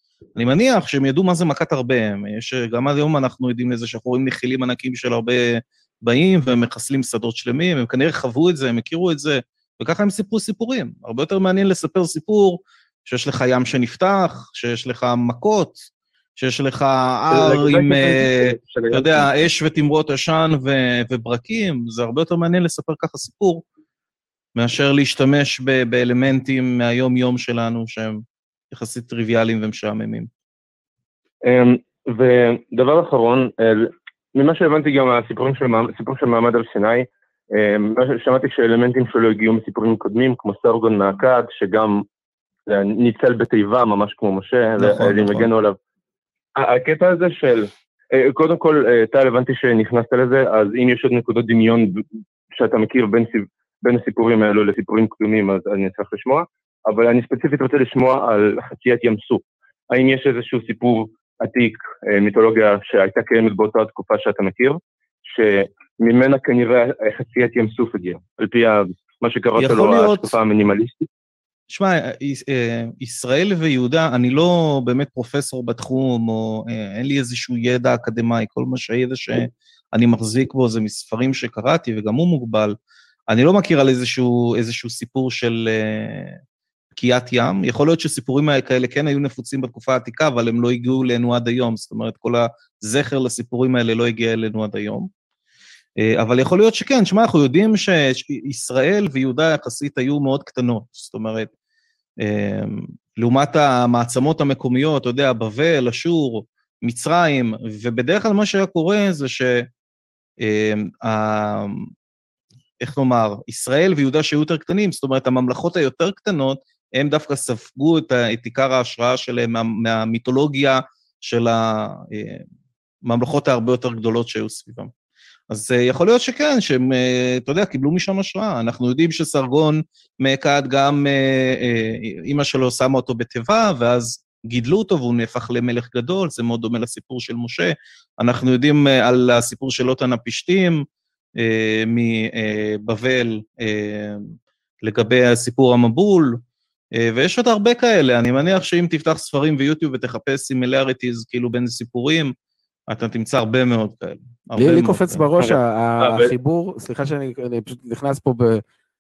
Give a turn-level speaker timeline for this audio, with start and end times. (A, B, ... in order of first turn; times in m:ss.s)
0:00.4-0:15.8 A
0:16.4-0:23.6 A
0:17.3-0:19.5 B
0:24.6-0:30.3 A
0:31.4-0:42.0 B
0:42.7-0:45.8 B
0:44.8-0:45.5 A
0:46.6-1:11.1 B
1:09.6-1:10.4 A
1:11.7-1:22.8 A
1:23.3-1:26.4 A
1:27.0-1:35.1 A
1:36.0-1:41.5 A
1:42.2-1:49.7 A
1:50.4-1:51.9 A
1:52.8-2:02.4 A
2:03.0-2:04.9 A
2:05.5-2:20.8 A
2:21.4-2:26.4 A
2:27.0-2:32.3 A
2:32.9-2:35.2 A
2:34.6-2:38.6 C
2:35.4-2:36.3 B